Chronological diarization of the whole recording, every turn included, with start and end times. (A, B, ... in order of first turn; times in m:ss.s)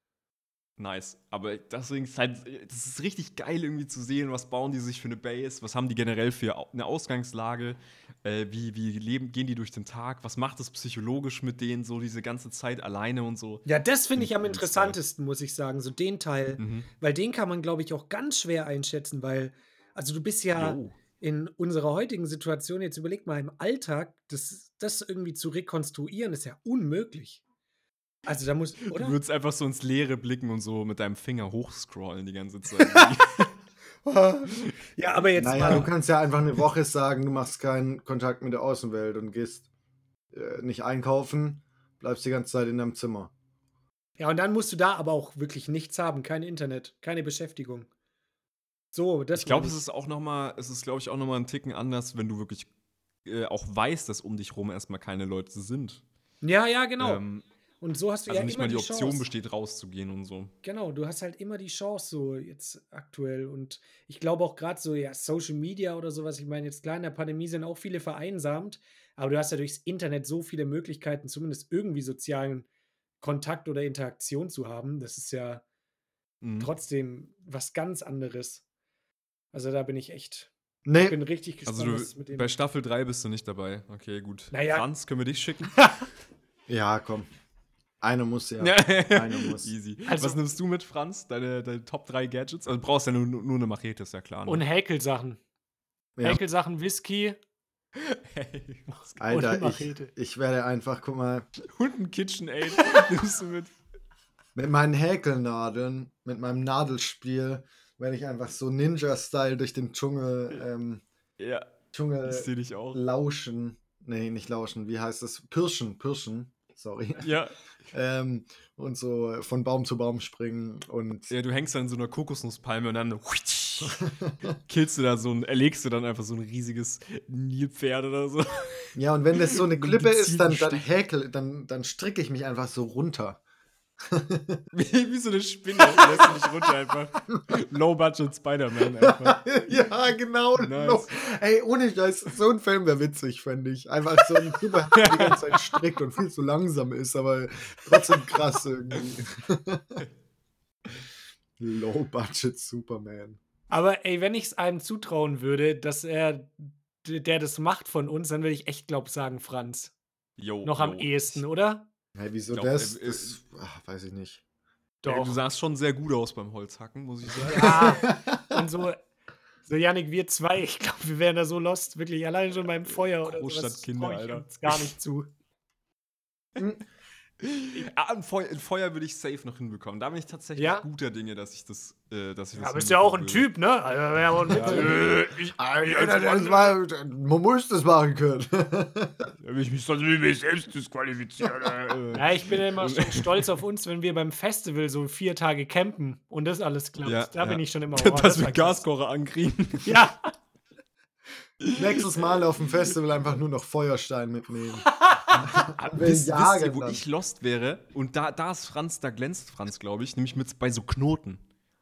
0:00.8-0:15.0 A
0:13.6-0:27.4 B
0:16.6-0:16.9 A
0:20.5-0:21.0 A
0:28.3-0:29.2 B
0:28.9-0:33.5 A
0:32.8-0:33.1 B
0:34.0-0:35.9 B
0:35.4-0:39.6 C
0:40.3-0:43.3 C
0:44.2-0:47.9 B
0:48.9-0:49.8 B
0:49.3-0:52.7 A
0:53.2-0:56.0 A
0:56.4-0:57.2 B
0:57.0-0:57.4 A
0:57.8-0:59.2 B
0:58.3-1:00.5 A
1:00.6-1:12.7 B
1:13.2-1:15.6 B
1:16.4-1:16.7 A
1:16.6-1:18.6 B
1:19.5-1:22.5 B
1:20.8-1:21.2 C
1:21.7-1:25.8 A
1:24.5-1:24.8 B
1:26.7-1:27.3 C
1:28.0-1:29.7 C
1:28.6-1:34.6 A
1:30.1-1:30.4 B
1:34.5-1:35.4 B
1:36.2-1:37.4 B
1:38.0-1:39.2 A
1:39.2-1:41.5 C
1:39.3-1:40.1 B
1:41.7-1:43.7 A
1:44.6-1:51.0 C
1:51.4-1:51.7 A
1:51.9-1:57.3 C
1:52.2-1:53.0 A
1:57.2-1:57.5 A
1:57.9-2:01.3 C
2:01.3-2:04.0 A
2:04.7-2:10.8 A
2:09.0-2:13.4 C
2:14.0-2:14.6 C
2:14.7-2:19.4 A
2:19.0-2:30.0 C
2:20.6-2:21.1 A
2:24.9-2:25.6 A
2:31.6-2:33.4 C
2:33.7-2:39.9 B
2:40.4-2:41.4 A
2:40.6-2:41.9 B
2:42.2-2:44.4 C
2:42.5-2:43.3 A
2:45.0-2:45.4 B
2:45.0-2:48.0 A
2:47.4-2:49.0 B
2:47.5-2:48.6 C
2:49.7-2:55.3 B
2:53.0-2:54.9 A
2:56.6-2:56.8 C
2:57.4-3:03.5 A
3:00.6-3:00.8 B
3:02.6-3:05.3 B
3:04.5-3:06.7 A
3:04.6-3:04.9 C
3:05.6-3:09.3 C
3:09.4-3:13.5 A
3:12.1-3:18.8 B
3:17.0-3:20.0 A
3:19.8-3:20.3 B
3:21.6-3:22.2 A
3:21.7-3:24.9 C
3:24.9-3:25.3 B
3:25.3-3:31.4 A
3:25.4-3:27.0 C